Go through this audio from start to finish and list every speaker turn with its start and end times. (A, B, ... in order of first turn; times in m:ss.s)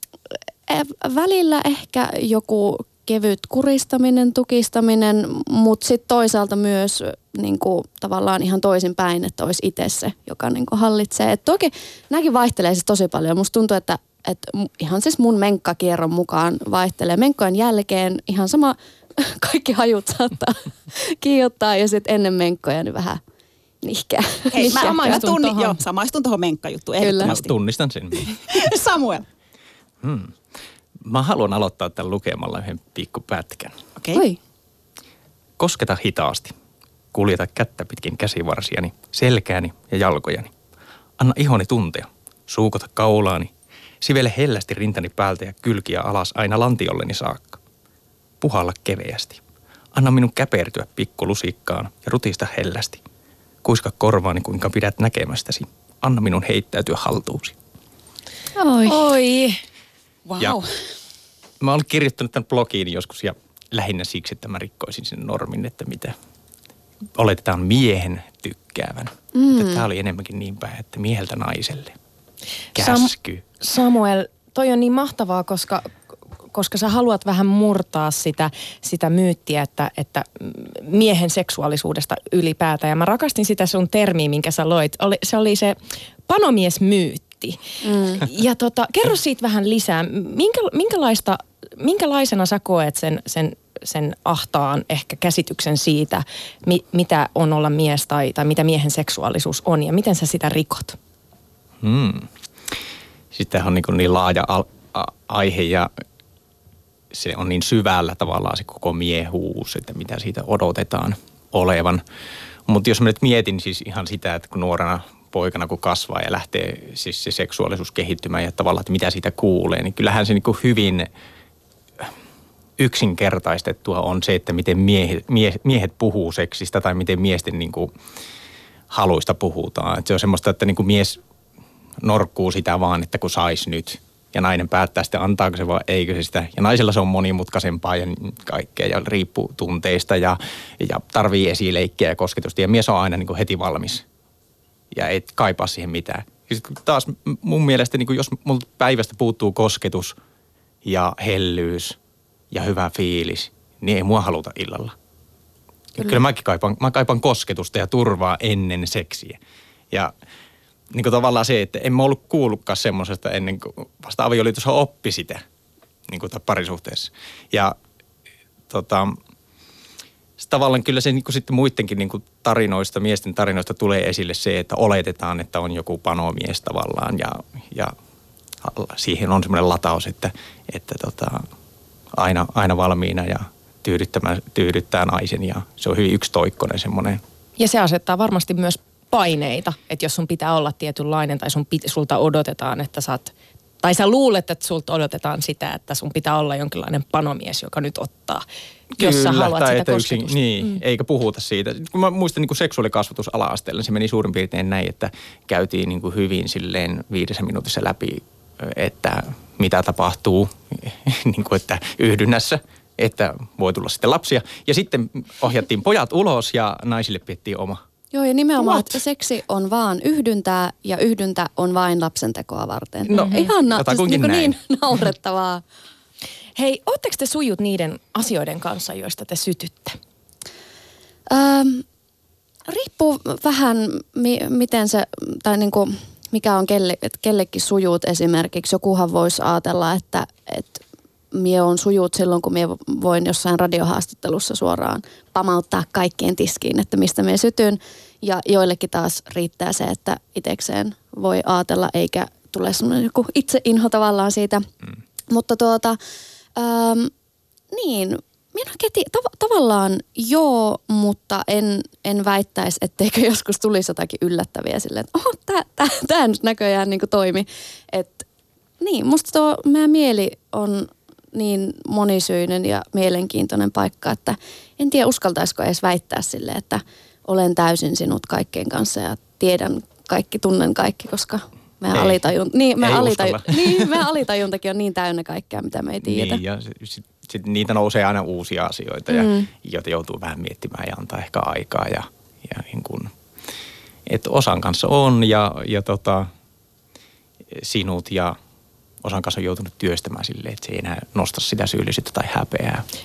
0:00.7-0:23.2 A
0:23.8-0:25.2 A
0:24.5-0:27.5 B
0:24.5-0:25.8 C
0:27.0-0:27.4 A
0:27.2-0:28.6 D
0:28.5-0:29.2 B
0:30.0-0:30.4 D
0:31.0-0:33.8 D
0:34.0-0:34.2 B
0:35.6-0:36.6 D
0:37.1-0:40.5 D
0:41.2-0:47.6 D
0:48.4-0:49.4 D
0:49.9-0:53.0 D
0:53.6-0:57.6 D
0:58.6-0:59.0 A
0:58.9-0:59.6 C
1:00.3-1:00.6 B
1:01.6-1:06.2 D
1:07.2-1:12.0 D
1:09.4-1:09.8 A
1:12.8-1:13.4 D
1:12.8-1:15.9 C
1:16.5-1:25.8 C
1:26.3-1:27.6 C
1:27.8-1:28.2 A
1:28.1-1:41.0 C
1:41.8-1:42.3 D
1:43.3-1:45.9 D
1:47.1-1:52.0 D
1:52.7-2:01.1 D
2:02.8-2:07.9 D
2:08.9-2:11.2 D
2:12.0-2:24.0 D
2:24.9-2:30.2 D
2:30.8-2:32.0 D
2:32.5-2:35.0 D
2:36.0-2:39.4 D
2:40.9-2:45.4 D
2:46.1-2:47.8 D
2:48.7-2:49.2 D
2:50.4-2:57.9 D
2:58.6-3:01.5 D
3:02.1-3:07.2 D
3:07.6-3:18.4 C
3:18.9-3:37.8 D
3:19.0-3:20.8 C
3:38.1-3:45.6 A
3:43.1-3:44.6 D
3:43.1-3:43.5 C
3:46.6-3:50.0 C
3:51.3-3:51.8 A
3:52.7-4:00.8 A
4:01.3-4:14.6 A
4:15.3-4:16.0 A
4:16.6-4:17.1 A
4:17.7-4:28.2 A
4:28.8-4:46.4 A
4:41.9-4:42.2 D
4:42.8-4:44.0 D
4:46.0-4:53.1 D
4:49.1-4:49.5 A
4:54.1-4:56.3 D
4:57.5-4:58.4 D
4:59.0-5:02.8 D